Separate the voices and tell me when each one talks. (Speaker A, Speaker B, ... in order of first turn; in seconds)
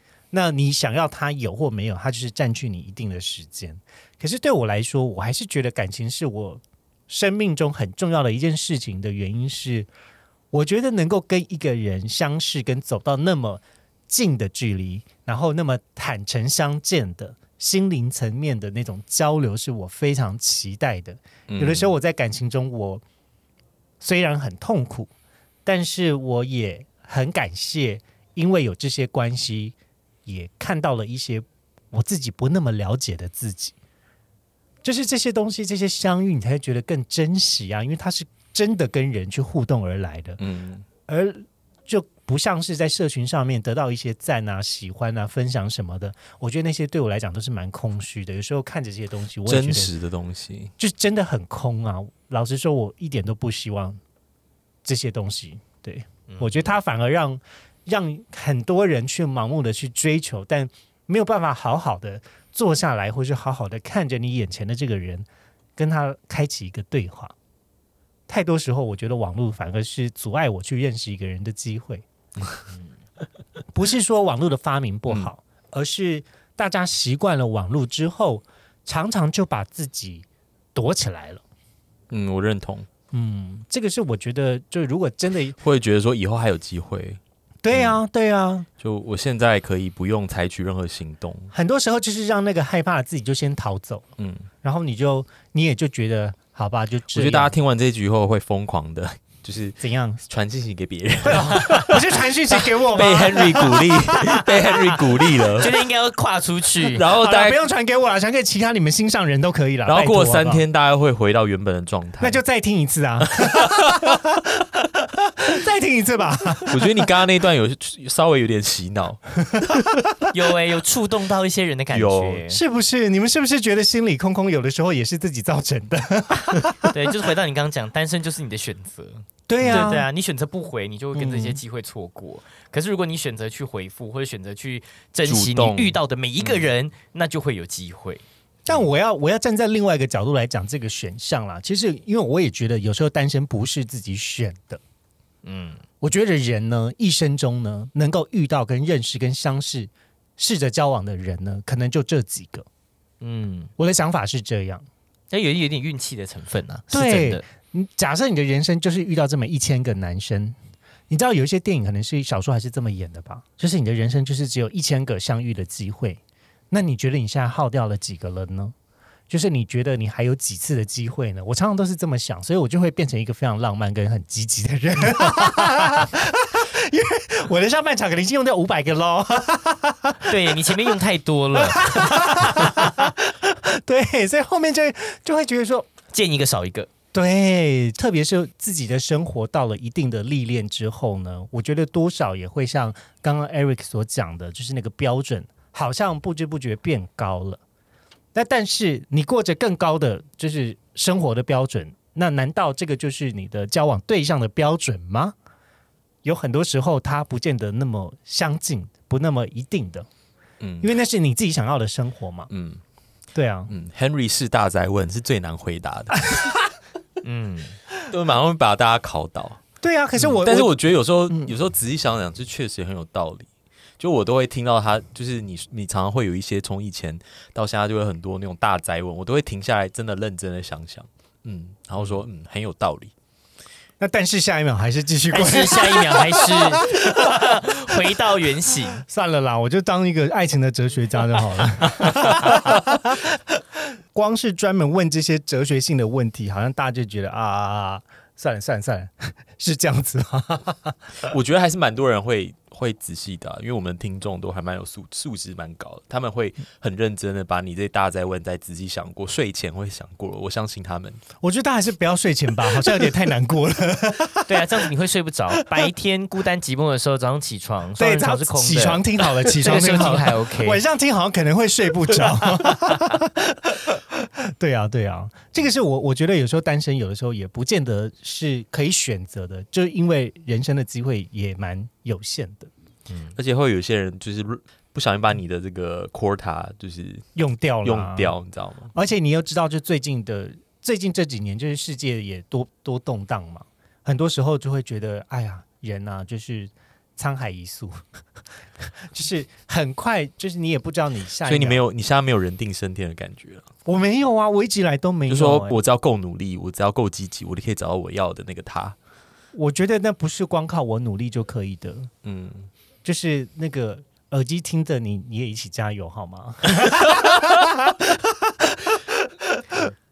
Speaker A: 0.3-9.9, 10.5-23.0, 24.0-25.1, 25.6-29.8, 30.3-33.8, 34.8-40.4, 41.1-49.9, 50.8-54.0, 54.8-67.3, 68.3-72.0, 73.7-81.4, 83.1-85.6, 87.6-88.7, 91.5-94.1, 94.6-97.5, 99.8-100.2, 101.2-104.3, 107.1-110.6, 112.2-117.1, 119.5-120.0, 122.5-127.1, 129.5-130.1, 131.2-131.6, 138.7-144.8, 146.0-152.7, 153.8-154.8, 156.9-160.6, 161.1-168.8, 169.3-181.0, 181.6-185.9, 187.1-197.6, 198.3-205.3, 206.2-210.1, 210.8-212.5, 213.3-213.7, 219.8-220.8, 221.3-221.5, 234.0-237.6, 239.1-251.3, 261.4-264.8, 265.6-265.9, 268.0-282.7, 287.4-288.4, 288.9-298.0, 298.8-301.8, 303.9-305.8, 309.5-312.1, 313.0-319.9
Speaker B: 21.5-21.9, 40.4-40.9, 49.5-50.7, 82.1-82.9, 85.6-87.2, 87.7-88.0, 88.8-91.5, 94.2-94.5, 97.1-105.8, 106.8-107.6, 109.9-112.4, 113.4-113.9, 116.7-119.9, 121.9-122.4, 129.6-130.0, 135.3-136.6, 210.6-210.9, 212.5-212.8, 213.7-216.4, 218.1-219.6, 220.2-223.5, 224.0-233.1, 251.3-261.2, 283.4-287.3, 287.8-288.9, 301.4-303.7, 305.3-309.0, 312.2-312.7
Speaker C: 56.3-56.7, 105.3-107.0, 120.3-122.6, 126.9-138.2, 145.4-145.8, 153.2-153.7, 155.3-157.4, 180.2-182.9, 186.1-186.9, 217.2-217.8, 235.3-239.0, 264.5-270.8